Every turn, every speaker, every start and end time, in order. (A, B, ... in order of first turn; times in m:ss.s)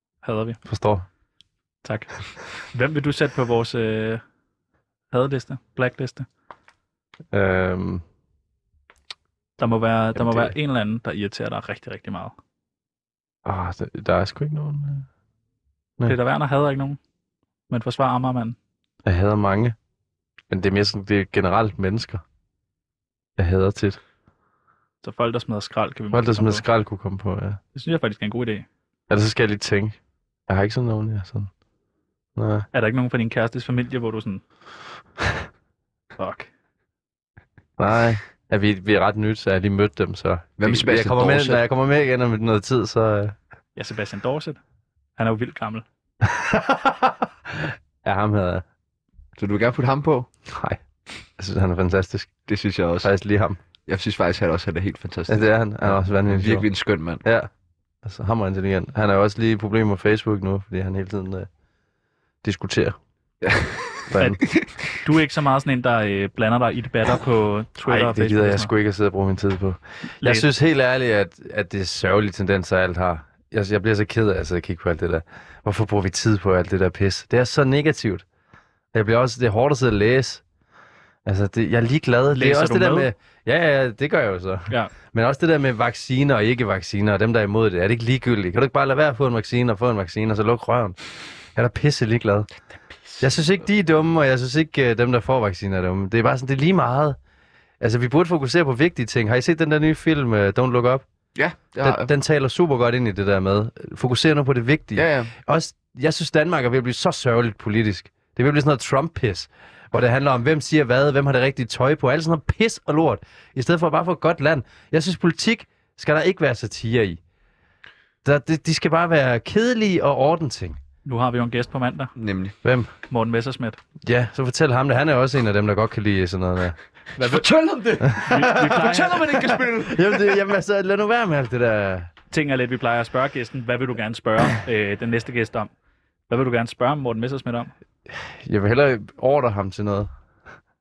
0:00.2-0:00.6 A
0:00.6-0:01.0 B
0:01.8-0:04.2 A
0:05.1-0:06.3 A
0:07.3-0:08.0 B
0:09.6-0:12.3 A
0:10.2-0:10.5 B
0:13.4-0:15.0 B
0:16.0-0:17.0 A
0:17.7-0:18.6 A
0:19.0-0:19.8 B
0:20.5-0:22.2 B
0:23.4-0:24.0 B
0:25.0-0:26.6 A
0:26.1-0:27.6 B
0:27.7-0:28.6 A
0:29.1-0:30.0 B
0:30.5-0:31.5 B
0:32.4-0:32.6 B
0:32.7-0:34.4 A
0:36.2-0:36.5 A
0:37.8-0:43.3 B
0:40.6-0:41.6 C
0:43.8-0:44.6 A
0:45.2-0:45.8 A
0:46.2-0:48.6 B
0:49.4-0:50.3 C
0:50.5-0:50.8 B
0:51.4-0:52.3 B
0:52.5-0:53.1 C
0:53.0-0:53.6 B
0:53.9-0:57.2 C
0:55.3-0:56.6 B
0:57.2-0:57.5 B
0:58.0-1:01.5 B
1:02.4-1:03.0 B
1:03.4-1:04.7 C
1:04.1-1:04.4 B
1:04.2-1:08.7 A
1:07.9-1:18.2 B
1:10.2-1:10.5 A
1:18.9-1:20.4 B
1:21.2-1:31.0 B
1:22.3-1:23.1 A
1:31.5-1:32.5 B
1:33.2-1:37.2 B
1:37.8-1:41.0 B
1:41.3-1:42.1 C
1:41.8-1:57.2 B
1:45.0-1:45.3 C
1:58.2-2:00.8 B
2:01.0-2:02.1 A
2:02.2-2:02.5 C
2:02.6-2:02.9 B
2:03.1-2:03.8 A
2:04.0-2:06.8 B
2:07.2-2:07.5 A
2:07.2-2:10.4 C
2:08.1-2:08.8 B
2:08.2-2:09.5 A
2:09.8-2:12.1 B
2:12.3-2:15.7 A
2:16.3-2:17.7 A
2:18.1-2:20.1 B